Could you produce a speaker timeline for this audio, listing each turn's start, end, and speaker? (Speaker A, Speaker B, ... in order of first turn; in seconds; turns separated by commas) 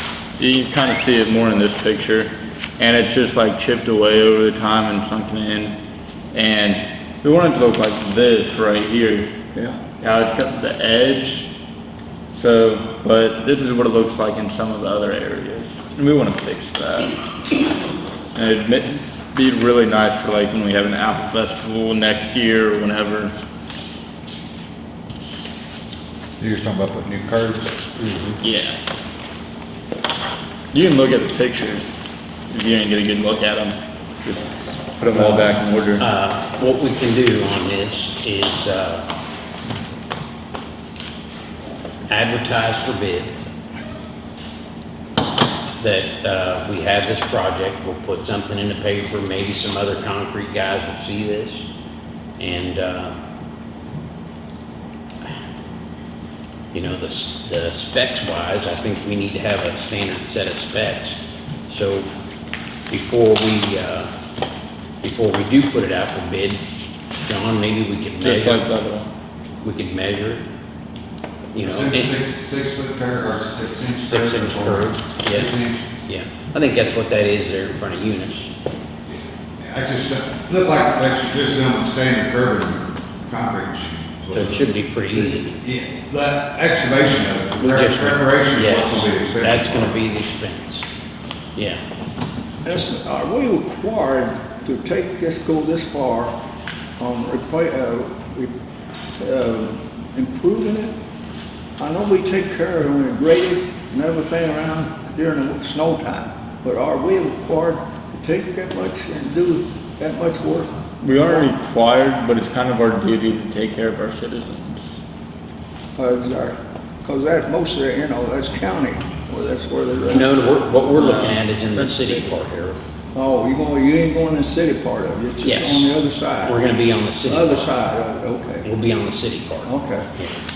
Speaker A: 0.4-5.7, Speaker A: 6.3-9.3, Speaker B: 9.5-9.8, Speaker A: 10.0-11.5, Speaker A: 12.3-17.1, Speaker A: 18.3-23.3, Speaker C: 26.4-27.7, Speaker D: 27.9-28.4, Speaker A: 28.4-28.8, Speaker A: 30.7-31.9, Speaker A: 32.5-34.5, Speaker A: 35.0-36.0, Speaker D: 35.1-35.5, Speaker D: 36.0-39.0, Speaker D: 42.1-43.3, Speaker D: 45.8-51.6, Speaker D: 52.4-53.1, Speaker D: 56.7-61.2, Speaker D: 61.7-62.1, Speaker D: 62.9-64.1, Speaker D: 65.0-66.6, Speaker D: 67.2-68.6, Speaker A: 68.2-69.1, Speaker D: 69.6-70.4, Speaker D: 71.5-72.1, Speaker C: 71.6-75.8, Speaker D: 74.0-78.5, Speaker C: 79.6-90.0, Speaker D: 84.3-85.5, Speaker D: 87.6-90.8, Speaker D: 91.5-91.8, Speaker B: 92.6-96.3, Speaker B: 97.0-98.5, Speaker B: 99.2-100.9, Speaker B: 101.8-110.7, Speaker A: 111.0-114.9, Speaker B: 116.0-120.3, Speaker D: 120.1-122.8, Speaker A: 120.9-122.3, Speaker B: 123.1-126.5, Speaker D: 125.4-127.8, Speaker B: 127.3-128.7, Speaker D: 128.6-130.3, Speaker B: 129.6-130.1